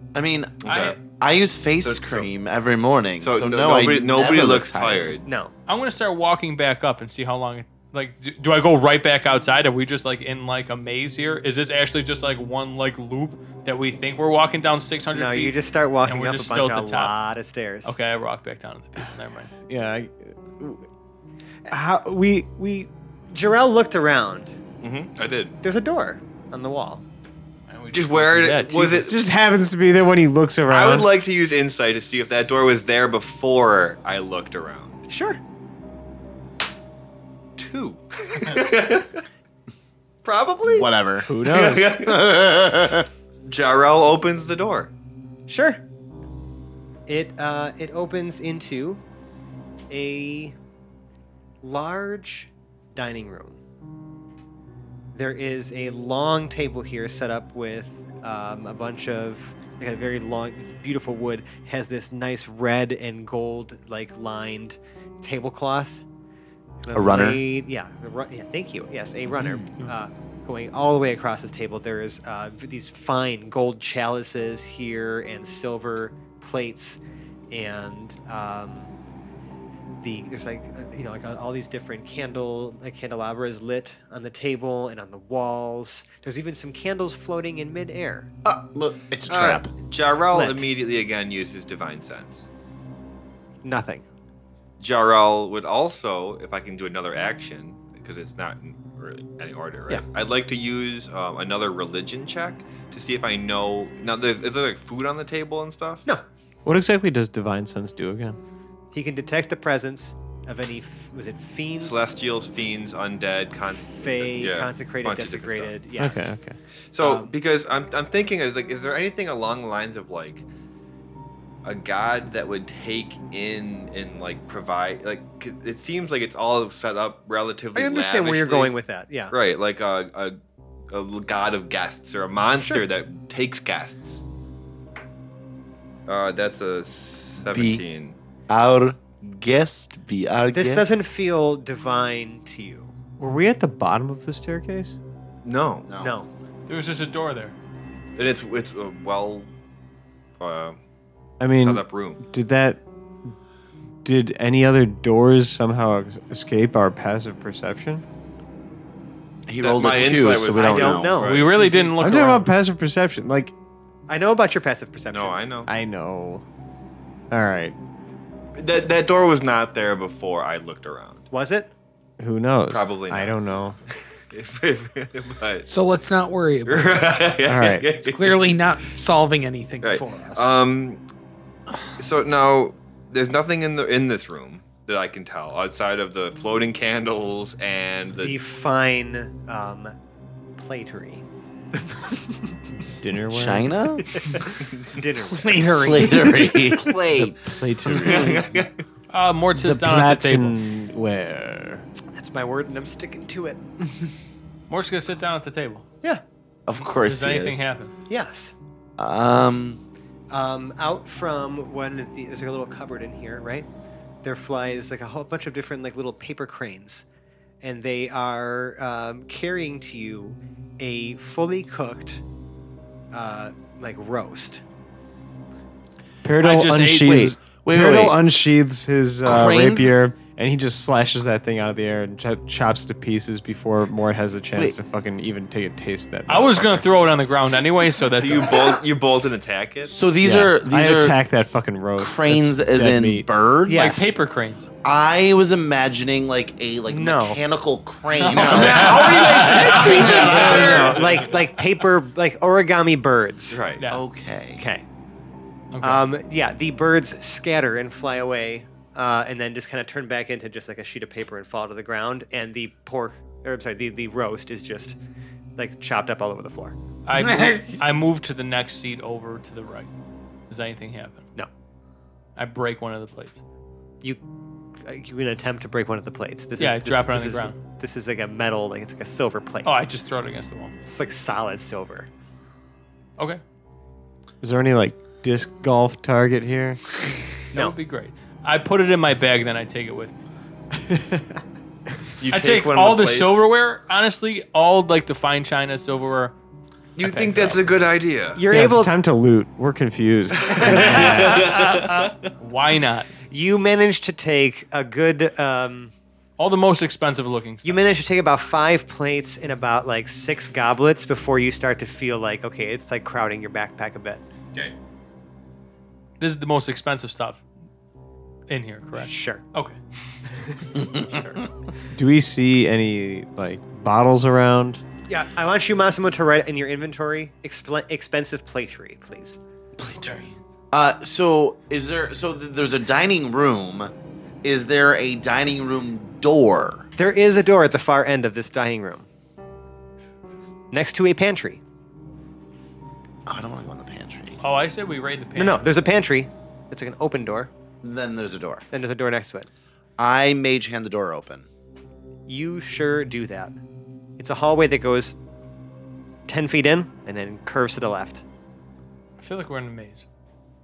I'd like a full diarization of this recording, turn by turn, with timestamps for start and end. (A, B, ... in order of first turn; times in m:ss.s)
0:00.1-0:05.2 A
0:00.6-0:00.9 B
0:00.6-0:01.0 C
0:01.8-0:02.3 B
0:03.2-0:05.3 B
0:05.2-0:05.5 D
0:05.7-0:17.1 C
0:15.1-0:17.9 D
0:17.8-0:19.5 C
0:19.7-0:20.8 E
0:21.7-0:22.9 E
0:23.3-0:24.5 D
0:24.8-0:25.6 B
0:25.6-0:27.0 D
0:27.7-0:29.1 C
0:27.9-0:29.2 B
0:29.0-0:31.1 E
0:30.7-0:35.0 B
0:35.1-0:35.4 D
0:37.6-0:39.2 B
0:40.2-0:40.9 B
0:40.7-0:41.3 A
0:41.2-0:42.0 E
0:41.4-0:42.7 B
0:42.0-0:43.1 A
0:43.4-0:44.9 B
0:45.5-0:45.8 D
0:47.1-0:49.0 D
0:49.9-0:50.5 D
0:51.6-0:53.6 D
0:55.1-1:06.0 D
1:06.8-1:18.9 D
1:06.9-1:07.4 A
1:20.0-1:28.3 D
1:28.4-1:29.7 A
1:29.3-1:32.4 B
1:30.3-1:30.6 D
1:33.6-1:34.0 D
1:34.8-1:46.0 B
1:46.6-1:48.4 E
1:48.9-1:52.0 D
1:51.8-1:55.8 B
1:54.0-1:56.2 D
1:56.0-1:56.6 E
1:56.9-2:00.4 B
1:57.0-1:57.3 D
2:01.6-2:08.7 B
2:07.8-2:09.3 D
2:09.3-2:10.4 B
2:10.9-2:14.2 B
2:12.6-2:12.8 D
2:16.1-2:18.2 B
2:17.5-2:17.8 A
2:18.5-2:21.0 A
2:20.5-2:22.9 D
2:23.2-2:25.0 E
2:25.4-2:25.9 B
2:25.8-2:26.1 A
2:26.0-2:26.3 D
2:26.7-2:27.5 C
2:28.2-2:29.5 B
2:30.4-2:30.8 B
2:31.4-2:32.8 E
2:31.6-2:32.2 B
2:34.0-2:38.0 E
2:39.5-2:41.3 A
2:39.6-2:41.6 B
2:40.5-2:41.6 D
2:41.2-2:42.5 C
2:42.0-2:43.5 E
2:44.1-2:45.6 D
2:45.1-2:45.7 B
2:45.6-2:46.4 E
2:47.3-2:47.8 E
2:48.6-2:51.2 B
2:51.3-2:51.7 D
2:52.2-2:53.8 E
2:52.7-2:53.4 B
2:54.3-2:55.7 B
2:55.6-2:57.2 F
2:56.6-2:58.4 B
2:57.4-2:57.9 E
2:58.0-3:00.6 F
2:59.8-3:01.0 B
3:02.0-3:08.4 B
3:08.2-3:09.9 D
3:10.6-3:11.2 D
3:11.9-3:12.5 D
3:13.0-3:13.8 E
3:13.3-3:14.0 A
3:14.0-3:15.7 D
3:15.2-3:16.7 F
3:15.7-3:18.4 A
3:17.1-3:18.5 E
3:18.0-3:18.7 B
3:19.1-3:20.6 C
3:19.5-3:21.8 E
3:22.1-3:23.6 D
3:24.7-3:25.8 C
3:26.6-3:27.6 A
3:26.7-3:27.9 C
3:28.1-3:28.5 D
3:29.0-3:29.8 A
3:30.3-3:33.7 D
3:34.2-3:37.0 D
3:37.6-3:42.2 D
3:43.1-3:44.6 D
3:46.2-3:56.8 E
3:46.4-3:47.1 C
3:46.8-3:48.2 A
3:49.2-3:49.9 A
3:56.3-3:58.8 C
3:58.2-3:59.9 B
3:59.9-4:01.2 A
4:00.2-4:03.3 E
4:02.0-4:04.0 A
4:03.6-4:04.1 D
4:03.7-4:04.7 C
4:04.8-4:11.1 A
4:06.9-4:07.4 D
4:08.3-4:10.7 C
4:08.3-4:09.5 F
4:08.3-4:08.8 D
4:09.6-4:13.6 D
4:10.3-4:11.2 B
4:13.5-4:13.8 B
4:13.9-4:14.6 A
4:14.6-4:14.8 D
4:15.7-4:16.1 C
4:15.8-4:25.0 D
4:25.6-4:26.8 D
4:27.0-4:29.9 C
4:27.2-4:27.8 F
4:30.5-4:31.2 C
4:32.4-4:33.4 C
4:34.8-4:39.7 D
4:36.6-4:37.6 C
4:39.6-4:40.7 C
4:40.8-4:42.1 D
4:44.4-4:46.8 E
4:47.5-4:50.2 C
4:50.9-4:51.2 E
4:52.2-4:53.4 B
4:52.3-4:56.3 C
4:57.0-4:58.4 B
4:57.0-4:57.6 C
4:58.4-4:58.9 D
4:58.5-5:01.6 E
5:00.4-5:02.2 B
5:00.7-5:01.4 C
5:02.4-5:03.1 C
5:03.3-5:05.9 D
5:06.4-5:07.8 C
5:07.6-5:14.2 D
5:16.2-5:17.4 C
5:18.5-5:19.8 C
5:19.0-5:19.4 D
5:20.7-5:21.4 A
5:21.1-5:21.4 D
5:21.9-5:24.8 E
5:25.1-5:29.4 D
5:29.8-5:33.9 A
5:34.4-5:36.9 A
5:37.0-5:39.1 D
5:40.7-5:41.6 D
5:43.2-5:44.4 A
5:44.4-5:45.6 C
5:45.4-5:47.5 D
5:47.8-5:48.6 A
5:48.7-5:49.5 D
5:50.0-5:51.5 A
5:52.3-5:53.6 D
5:54.2-5:55.1 D
5:56.3-5:58.2 D
5:59.2-6:00.1 C